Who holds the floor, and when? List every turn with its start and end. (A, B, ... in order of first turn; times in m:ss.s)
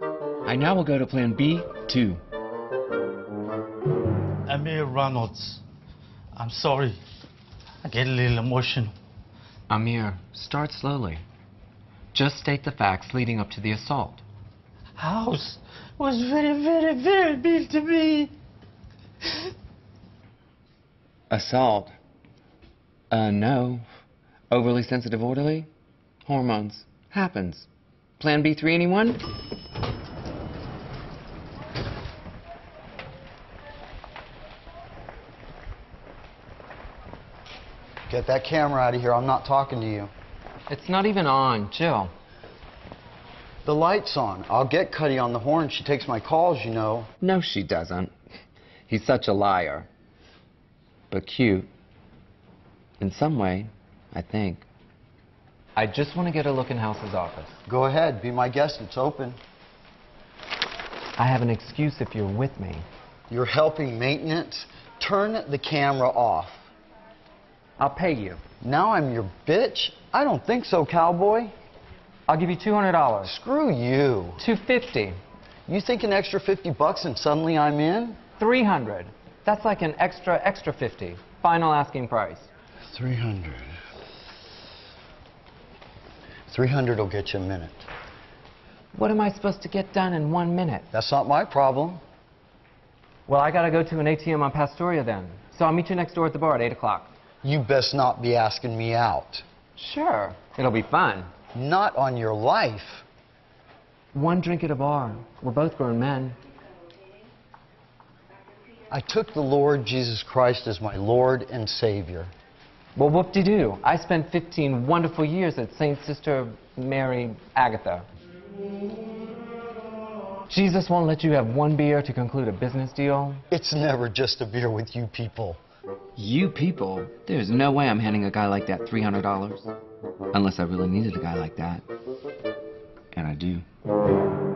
0:00.5-0:02.2 A
0:04.5-0:05.6 B
0:06.4-0:07.0 B
0:07.8-0:08.9 B
0:09.7-0:11.2 A
0:12.1-0:14.2 A
0:15.0-0:18.3 B
0:21.3-0:21.9 A
0:23.1-0:23.8 A
0:24.5-0:25.7 A
0:26.3-0:27.7 A
0:28.2-0:29.2 A
0:38.1-0:40.1 C
0:40.7-0:42.1 A
0:43.6-0:47.1 C
0:47.2-0:48.1 A
0:48.9-0:49.9 A
0:51.1-0:51.7 A
0:53.0-0:54.7 A
0:55.8-0:57.6 A
0:57.7-0:59.4 C
1:01.2-1:02.8 A
1:03.3-1:06.6 C
1:07.8-1:08.4 A
1:08.6-1:11.5 C
1:12.3-1:13.3 A
1:13.2-1:14.4 C
1:14.4-1:15.2 A
1:15.7-1:18.2 C
1:18.4-1:22.5 A
1:22.9-1:23.8 C
1:26.5-1:27.9 C
1:28.9-1:30.9 A
1:30.9-1:32.0 C
1:33.3-1:37.1 A
1:37.4-1:39.4 C
1:39.8-1:41.3 A
1:41.6-1:43.0 C
1:44.1-1:46.4 A
1:48.9-1:52.3 C
1:53.0-1:58.0 A
2:00.5-2:03.4 A
2:03.5-2:05.6 C
2:06.2-2:09.7 A
2:10.3-2:11.8 A
2:13.1-2:13.6 A